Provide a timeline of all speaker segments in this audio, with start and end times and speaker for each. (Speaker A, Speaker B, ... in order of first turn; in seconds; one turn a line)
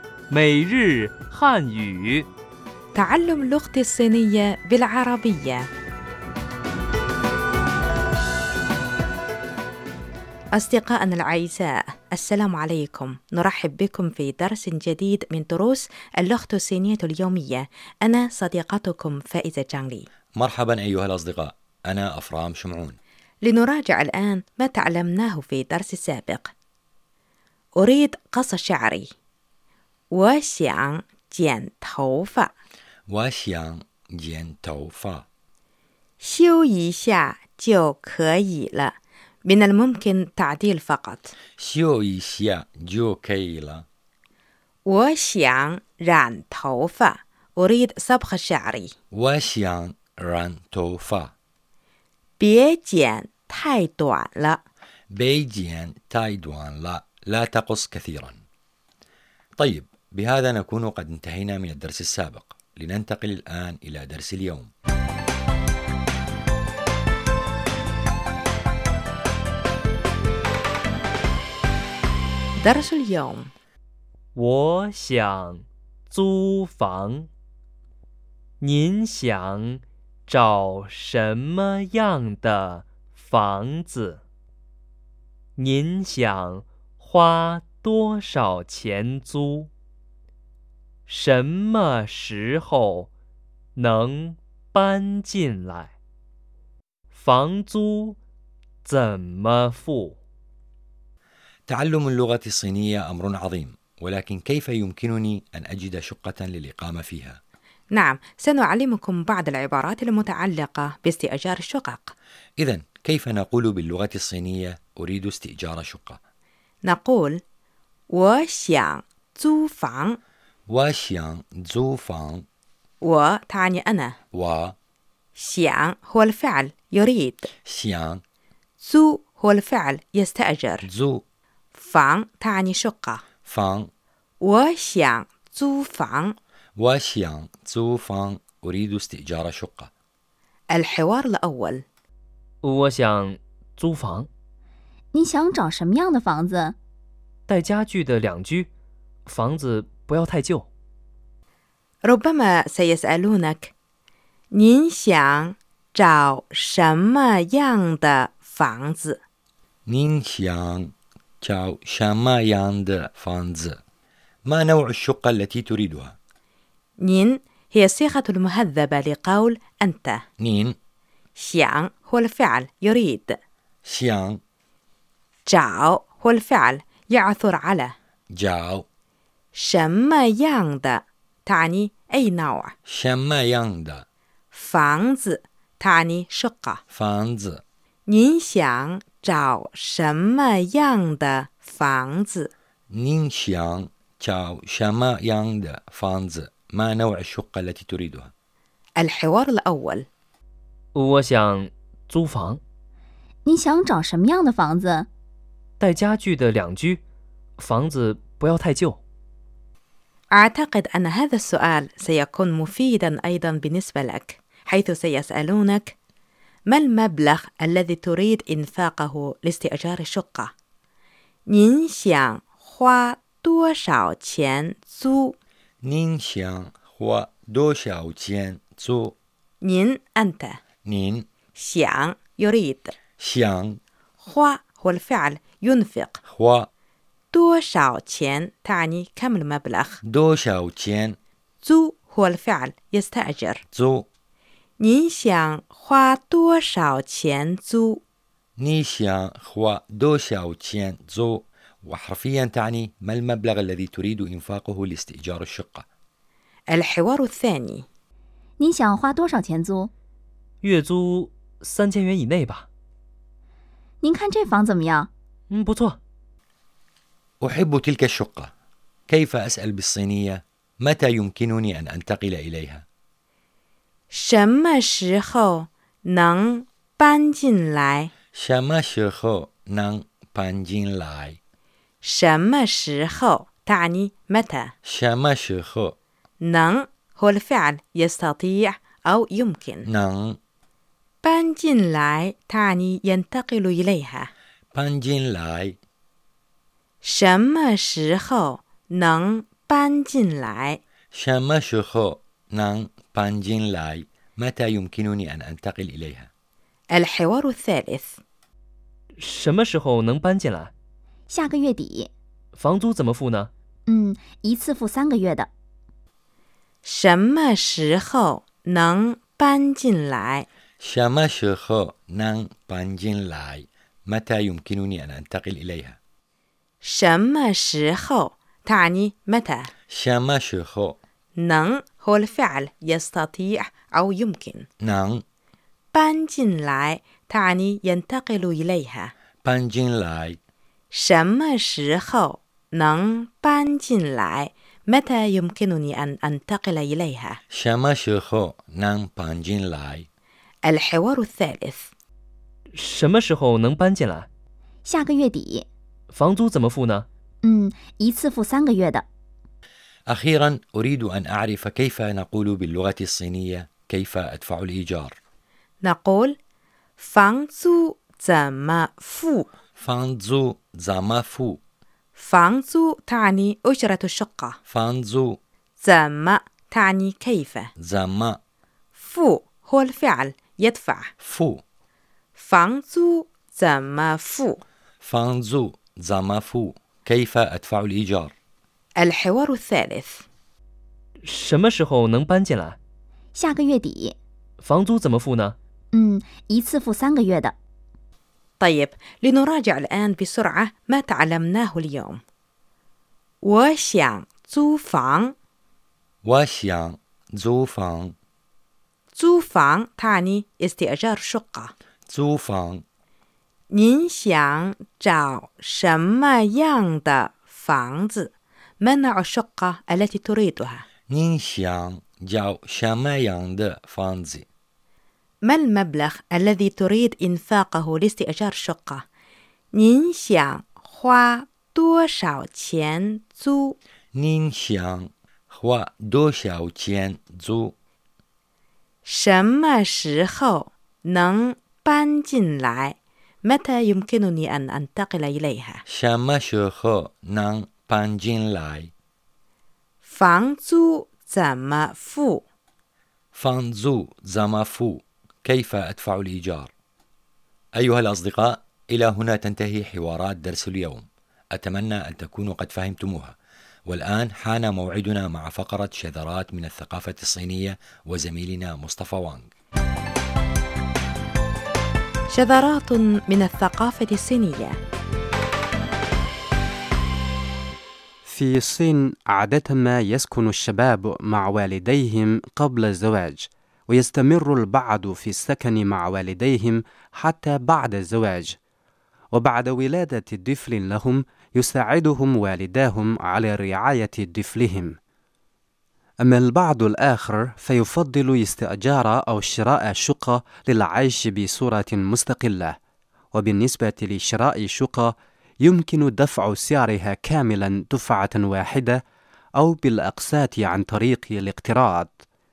Speaker A: 0.3-2.3
Speaker B: 3.0-5.7
Speaker B: 10.5-20.1
Speaker C: 20.4-23.0
Speaker B: 23.4-26.5
Speaker B: 27.8-29.1
Speaker B: 30.1-32.5
Speaker C: 33.1-35.3
Speaker B: 36.2-41.3
Speaker C: 41.6-43.9
Speaker B: 44.9-48.9
Speaker C: 49.1-51.3
Speaker B: 52.4-54.6
Speaker C: 55.1-58.4
Speaker C: 59.6-64.7
Speaker B: 72.6-73.5
Speaker A: 74.3-77.3
Speaker A: 78.6-84.2
Speaker A: 85.6-89.7
Speaker A: 91.1-93.1
Speaker A: 93.8-95.9
Speaker A: 97.1-98.2
Speaker A: 98.8-100.2
Speaker C: 101.7-107.4
Speaker B: 107.9-112.1
Speaker C: 112.6-116.2
Speaker B: 116.8-117.4
Speaker B: 118.1-120.2
Speaker C: 120.7-122.5
Speaker B: 123.0-124.2
Speaker C: 124.3-124.8
Speaker B: 125.4-127.5
Speaker C: 127.7-128.2
Speaker B: 128.8-130.9
Speaker C: 130.8-131.2
Speaker B: 131.8-133.2
Speaker C: 133.5-133.9
Speaker B: 134.4-136.3
Speaker C: 136.8-139.9
Speaker B: 140.7-141.8
Speaker A: 142.6-144.3
Speaker D: 145.2-146.8
Speaker A: 147.5-148.7
Speaker A: 149.3-150.7
Speaker B: 152.0-153.7
Speaker B: 154.5-159.2
Speaker C: 159.9-163.8
Speaker C: 164.5-166.2
Speaker B: 167.0-170.2
Speaker C: 170.4-170.8
Speaker B: 171.4-173.3
Speaker C: 173.8-174.4
Speaker B: 175.5-177.9
Speaker C: 178.3-178.9
Speaker B: 179.5-182.7
Speaker C: 182.9-184.1
Speaker B: 184.5-186.8
Speaker C: 186.9-187.6
Speaker B: 188.1-192.5
Speaker C: 192.9-198.3
Speaker B: 199.0-200.1
Speaker A: 200.9-202.6
Speaker D: 203.6-205.1
Speaker A: 205.8-207.0
Speaker A: 207.6-209.0
Speaker B: 210.3-215.9
Speaker B: 216.7-220.5
Speaker B: 221.5-225.4
Speaker C: 225.8-229.2
Speaker B: 229.6-230.6
Speaker C: 230.8-231.3
Speaker B: 231.6-232.9
Speaker C: 233.2-233.8
Speaker B: 234.2-236.2
Speaker C: 236.3-236.7
Speaker B: 237.3-240.0
Speaker C: 240.0-241.2
Speaker B: 241.6-243.6
Speaker C: 243.7-244.1
Speaker B: 244.8-248.0
Speaker C: 248.6-255.9
Speaker B: 256.7-257.9
Speaker D: 258.6-259.9
Speaker A: 260.6-262.7
Speaker D: 264.0-265.1
Speaker A: 265.5-266.0
Speaker C: 267.4-268.5
Speaker C: 269.1-272.9
Speaker B: 274.1-278.1
Speaker C: 278.3-281.4
Speaker B: 282.0-284.7
Speaker C: 284.9-285.9
Speaker B: 286.4-289.9
Speaker C: 289.9-290.4
Speaker B: 291.2-294.3
Speaker C: 294.7-295.8
Speaker B: 297.0-300.8
Speaker C: 301.1-306.3
Speaker B: 306.9-308.2
Speaker A: 309.2-310.7
Speaker D: 311.3-312.1
Speaker A: 312.6-313.5
Speaker D: 313.9-315.5
Speaker B: 316.8-320.5
Speaker C: 320.8-326.0
Speaker B: 326.8-329.7
Speaker C: 329.9-331.0
Speaker B: 331.4-334.7
Speaker C: 334.8-335.2
Speaker B: 335.9-339.1
Speaker C: 339.4-340.4
Speaker B: 340.9-347.4
Speaker C: 347.5-350.1
Speaker B: 350.6-351.9
Speaker A: 352.7-354.3
Speaker D: 354.9-355.7
Speaker A: 356.1-357.1
Speaker D: 357.4-359.0
Speaker C: 360.1-365.2
Speaker B: 365.8-366.3
Speaker B: 367.0-369.5
Speaker C: 369.8-371.6
Speaker B: 372.2-374.6
Speaker C: 374.7-375.4
Speaker B: 375.8-377.7
Speaker C: 377.8-378.4
Speaker B: 379.0-381.1
Speaker C: 381.2-381.6
Speaker B: 382.4-384.6
Speaker C: 385.0-388.3
Speaker B: 389.0-390.2
Speaker A: 391.2-392.8
Speaker D: 393.4-394.2
Speaker A: 394.6-395.6
Speaker D: 395.9-397.6
Speaker B: 398.6-402.2
Speaker B: 403.4-405.3
Speaker C: 406.2-408.1
Speaker B: 409.1-411.7
Speaker C: 412.1-412.8
Speaker B: 413.7-418.3
Speaker B: 418.8-420.8
Speaker C: 421.1-424.5
Speaker B: 425.4-429.0
Speaker B: 429.7-433.8
Speaker C: 434.2-437.7
Speaker B: 439.1-445.8
Speaker C: 445.9-448.9
Speaker B: 450.1-452.4
Speaker C: 453.4-456.7
Speaker C: 457.8-469.5
Speaker B: 472.3-474.8
Speaker E: 478.2-488.6
Speaker E: 489.3-495.0
Speaker E: 496.2-502.8
Speaker E: 503.3-509.0
Speaker E: 509.6-512.2